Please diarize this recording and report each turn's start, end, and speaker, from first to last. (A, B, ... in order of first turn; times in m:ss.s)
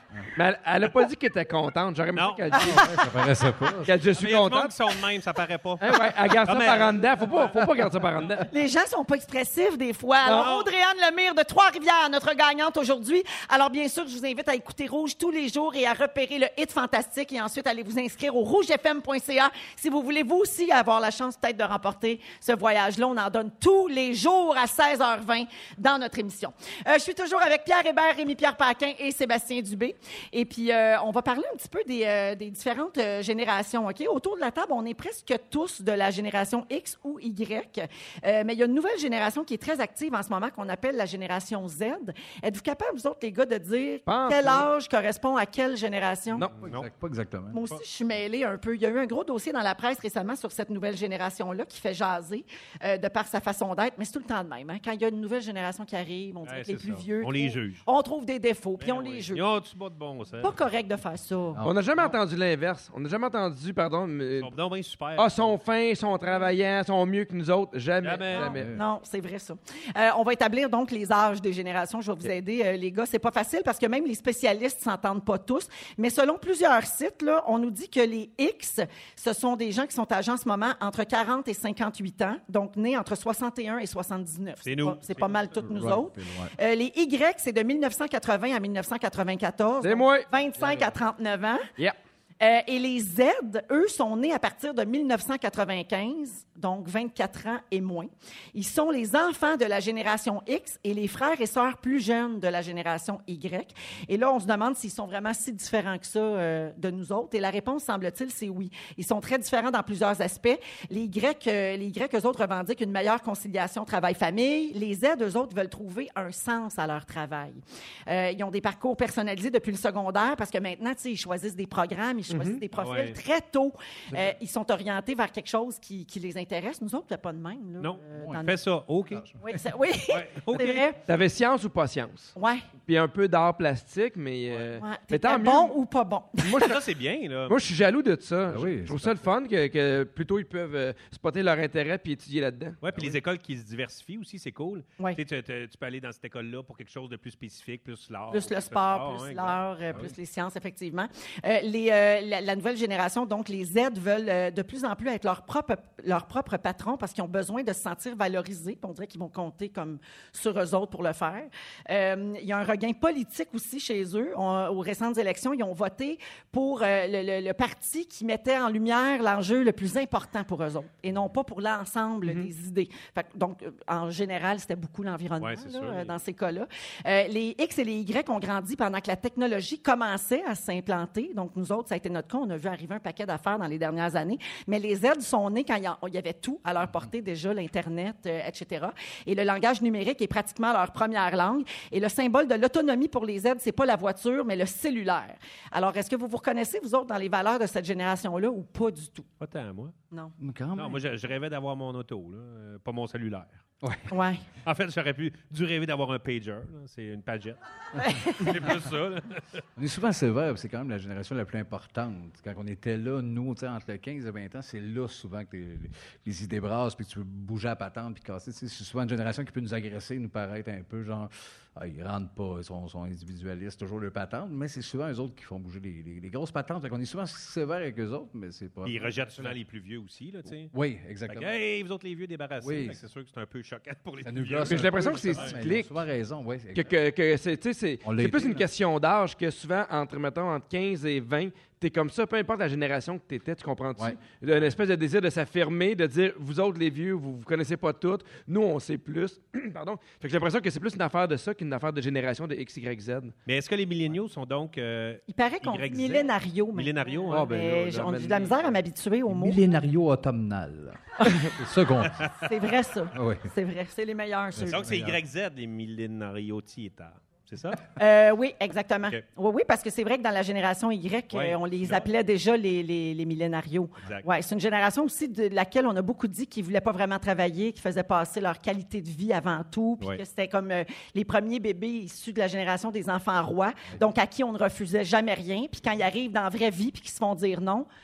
0:00.3-0:02.9 A
0:02.1-0:02.7 B
0:02.5-0:04.0 C
0:03.8-0:04.8 A
0:04.1-0:07.1 B
0:05.8-0:08.5 A
0:08.5-0:46.5 D
0:10.3-0:10.7 B
0:44.1-0:44.7 A
0:46.3-0:46.6 A
0:46.6-0:46.9 B
0:46.6-0:47.6 C
0:47.5-0:59.4 D
0:56.4-0:57.8 B
0:58.8-1:00.5 B
1:00.4-1:01.6 D
1:01.5-1:01.9 C
1:01.6-1:04.5 A
1:04.4-1:05.5 B
1:05.2-1:08.7 A
1:08.0-1:08.5 B
1:08.4-1:08.8 C
1:08.6-1:31.7 D
1:24.6-1:25.6 B
1:25.6-1:26.5 C
1:29.8-1:30.3 A
1:30.6-1:30.9 B
1:32.4-2:08.6 D
2:02.7-2:03.2 B
2:07.8-2:09.3 B
2:09.4-2:11.0 D
2:10.1-2:10.8 B
2:11.0-2:12.3 A
2:12.4-2:12.7 D
2:12.8-2:15.8 A
2:14.8-2:16.7 D
2:16.4-2:16.8 A
2:16.5-2:17.6 B
2:17.5-2:22.8 A
2:18.5-2:19.3 C
2:22.8-2:30.1 B
2:28.3-3:19.3 D
2:55.4-2:56.2 B
3:19.4-3:19.9 B
3:20.4-3:21.0 C
3:20.8-3:23.6 B
3:23.8-3:24.1 C
3:24.1-3:24.4 D
3:24.6-3:27.6 B
3:28.0-3:28.6 D
3:28.2-3:29.6 B
3:29.8-3:49.6 C
3:48.8-3:50.7 B
3:50.7-3:51.5 C
3:51.3-3:55.6 B
3:52.6-3:53.0 C
3:54.2-3:57.0 C
3:54.6-3:55.9 A
3:56.7-4:13.3 A
3:58.0-3:58.6 C
4:13.4-4:18.2 B
4:15.3-4:19.6 D
4:17.3-4:18.7 A
4:19.3-4:22.3 C
4:21.2-4:21.5 D
4:22.3-4:24.9 D
4:23.1-4:23.5 C
4:24.6-4:25.2 C
4:24.6-4:27.9 B
4:28.0-4:47.9 D
4:31.3-4:32.1 B